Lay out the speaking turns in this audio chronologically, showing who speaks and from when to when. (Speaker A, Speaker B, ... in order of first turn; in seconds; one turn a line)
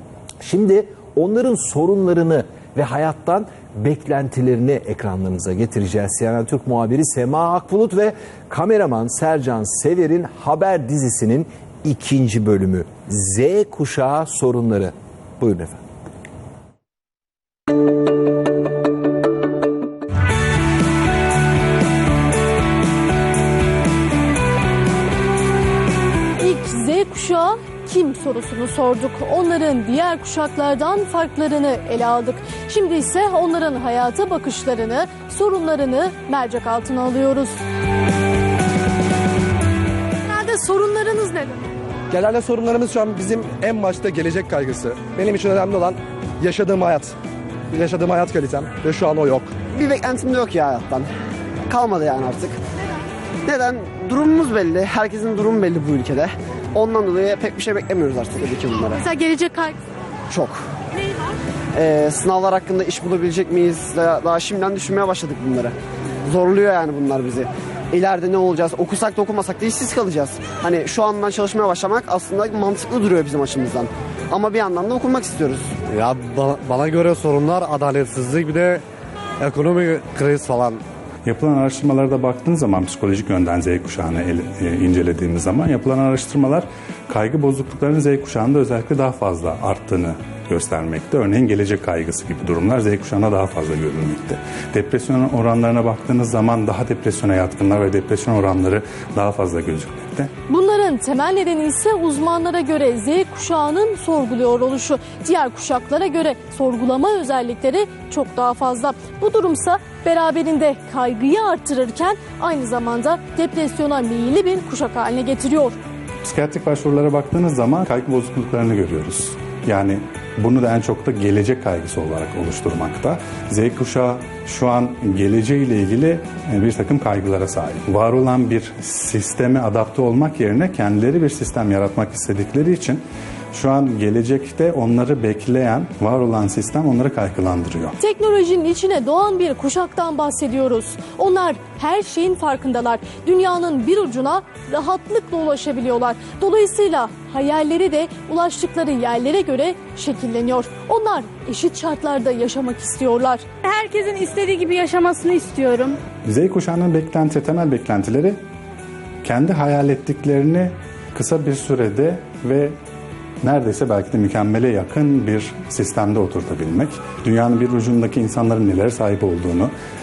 Speaker A: 0.4-15.8
Speaker B: 26.4-37.6
Speaker B: 40.2-41.7
Speaker C: 42.1-47.1
Speaker C: 47.7-49.5
Speaker D: 49.8-51.1
Speaker D: 51.7-52.6
Speaker D: 53.5-59.0
Speaker B: 59.0-59.8
Speaker D: 60.3-60.6
Speaker D: 61.8-65.7
Speaker D: 66.3-75.7
Speaker E: 75.9-78.8
Speaker E: 79.4-80.8
Speaker F: 81.2-100.3
Speaker B: 100.5-115.8
Speaker F: 116.2-138.0
Speaker B: 138.0-153.4
Speaker G: 153.6-156.0
Speaker F: 156.3-158.4
Speaker F: 159.2-162.8
Speaker F: 163.4-169.7